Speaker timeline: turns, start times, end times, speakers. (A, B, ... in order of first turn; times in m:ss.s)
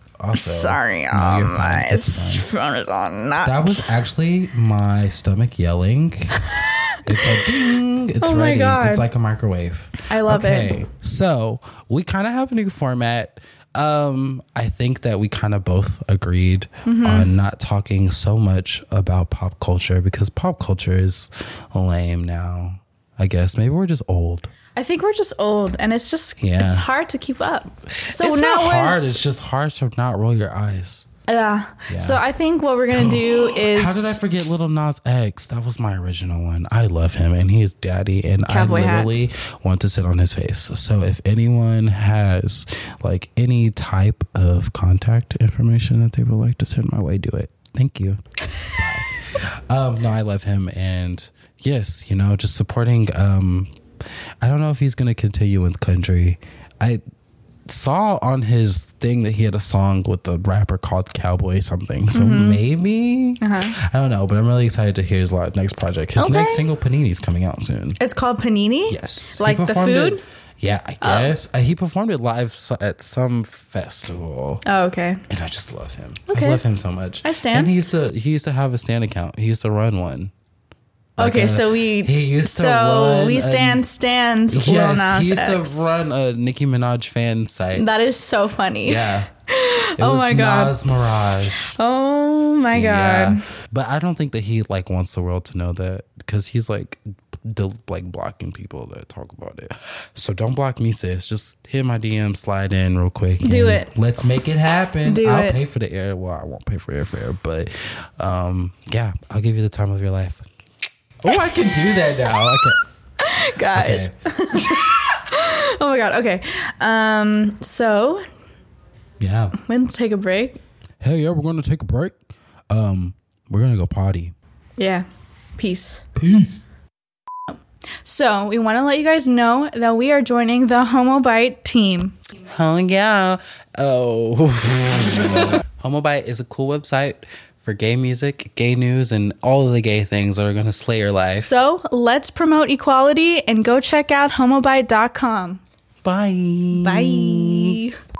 0:00.2-0:02.4 A
0:00.3-0:03.9 B
0:03.4-0:06.4 A
0:06.5-0:07.7 B
0:07.0-0:24.5 A
0:08.2-0:09.0 B
0:10.1-0:10.7 B
0:16.8-0:17.3 B
0:24.7-0:29.2 B
0:26.4-0:26.8 A
0:27.9-0:31.1 A
0:31.3-0:34.2 B
0:31.9-0:32.2 A
0:32.9-0:53.7 A
0:38.5-0:39.1 B
0:54.4-0:57.0 A
0:57.7-1:08.0 A
1:02.1-1:02.6 B
1:03.4-1:03.7 B
1:06.2-1:06.6 B
1:08.0-1:10.2 B
1:08.9-1:14.6 A
1:11.0-1:11.3 B
1:14.6-1:15.2 B
1:15.3-1:20.3 A
1:16.3-1:16.6 B
1:17.2-1:17.7 B
1:21.2-1:23.8 A
1:21.2-1:26.0 B
1:24.5-1:27.8 A
1:27.7-1:33.5 B
1:28.8-1:29.3 A
1:30.0-1:31.8 A
1:32.7-1:50.4 A
1:43.4-1:43.9 B
1:45.0-1:45.6 B
1:51.2-1:52.8 A
1:51.3-1:52.7 B
1:53.2-1:58.2 B
1:53.7-1:54.8 A
1:59.2-1:59.6 A
1:59.6-2:00.6 B
2:01.0-2:04.3 A
2:04.8-2:05.0 B
2:05.6-2:06.0 B
2:06.1-2:06.6 A
2:08.0-2:12.2 B
2:12.5-2:21.5 A
2:21.4-2:25.6 B
2:26.0-2:27.8 A
2:26.7-2:28.0 B